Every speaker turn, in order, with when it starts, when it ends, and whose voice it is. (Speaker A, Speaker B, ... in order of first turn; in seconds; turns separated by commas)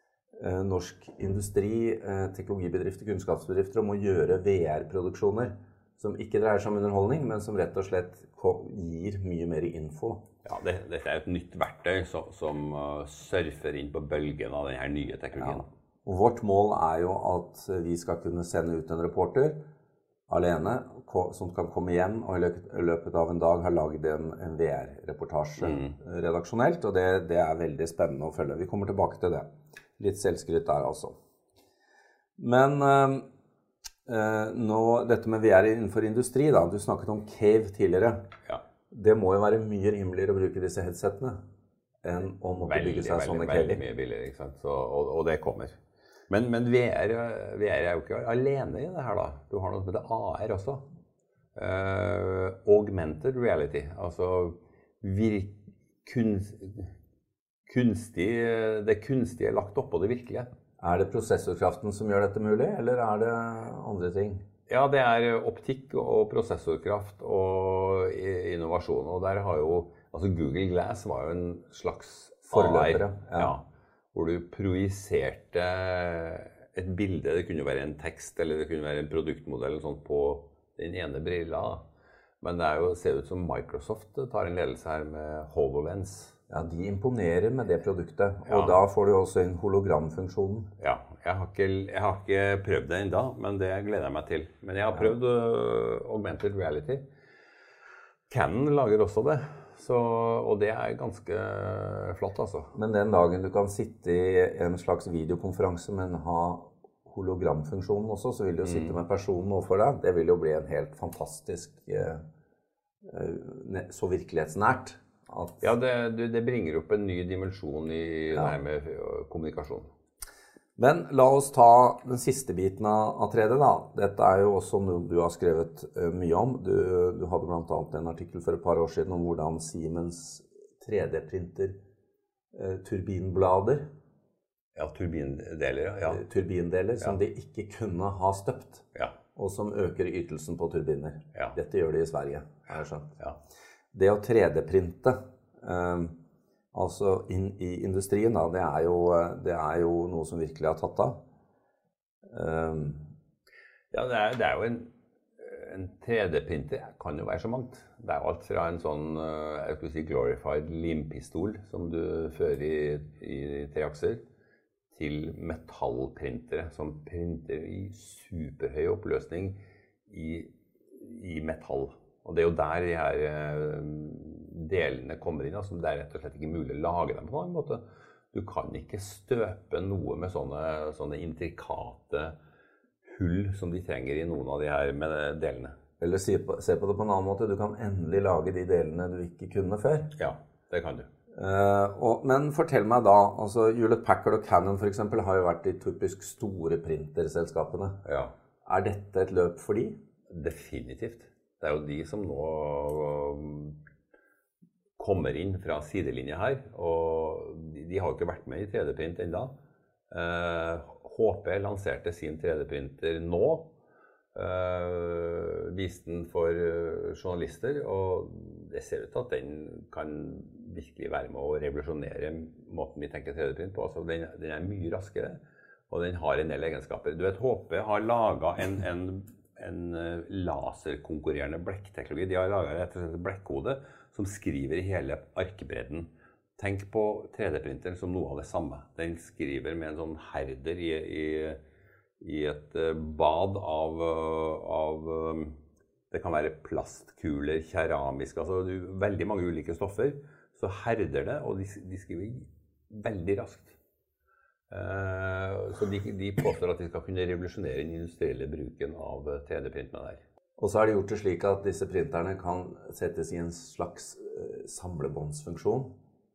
Speaker A: 0.4-10.2, Speaker B: 10.4-15.7, Speaker A: 15.3-19.6, Speaker A: 20.3-29.5, Speaker B: 25.6-25.9, Speaker A: 30.0-31.1, Speaker A: 32.4-33.2, Speaker A: 34.1-38.2, Speaker A: 38.9-41.4, Speaker A: 42.0-43.8, Speaker B: 42.6-45.8, Speaker B: 46.3-50.8, Speaker B: 51.5-56.9, Speaker B: 57.7-60.5, Speaker A: 60.8-64.4, Speaker B: 64.7-81.8, Speaker A: 72.5-73.5, Speaker B: 82.4-86.3, Speaker A: 86.5-90.7, Speaker B: 88.5-88.8, Speaker B: 90.8-97.0, Speaker B: 98.3-102.7, Speaker A: 102.7-112.2, Speaker B: 108.6-109.0, Speaker A: 113.0-115.7, Speaker B: 115.6-119.9, Speaker A: 120.8-131.8, Speaker A: 132.5-133.8, Speaker B: 134.8-136.2, Speaker A: 136.1-138.8, Speaker A: 139.3-143.1, Speaker A: 143.9-146.1, Speaker A: 146.7-151.2, Speaker A: 152.3-153.1, Speaker B: 153.9-164.2, Speaker B: 164.9-182.3, Speaker B: 183.1-185.8, Speaker A: 186.0-190.1, Speaker B: 190.2-191.1, Speaker A: 191.3-198.0, Speaker B: 198.0-198.3, Speaker A: 198.6-199.9, Speaker B: 200.3-203.8, Speaker B: 205.0-209.5, Speaker B: 210.1-213.7, Speaker B: 214.3-241.6, Speaker B: 242.2-245.6, Speaker B: 246.1-253.8, Speaker B: 254.7-260.2, Speaker A: 260.6-265.9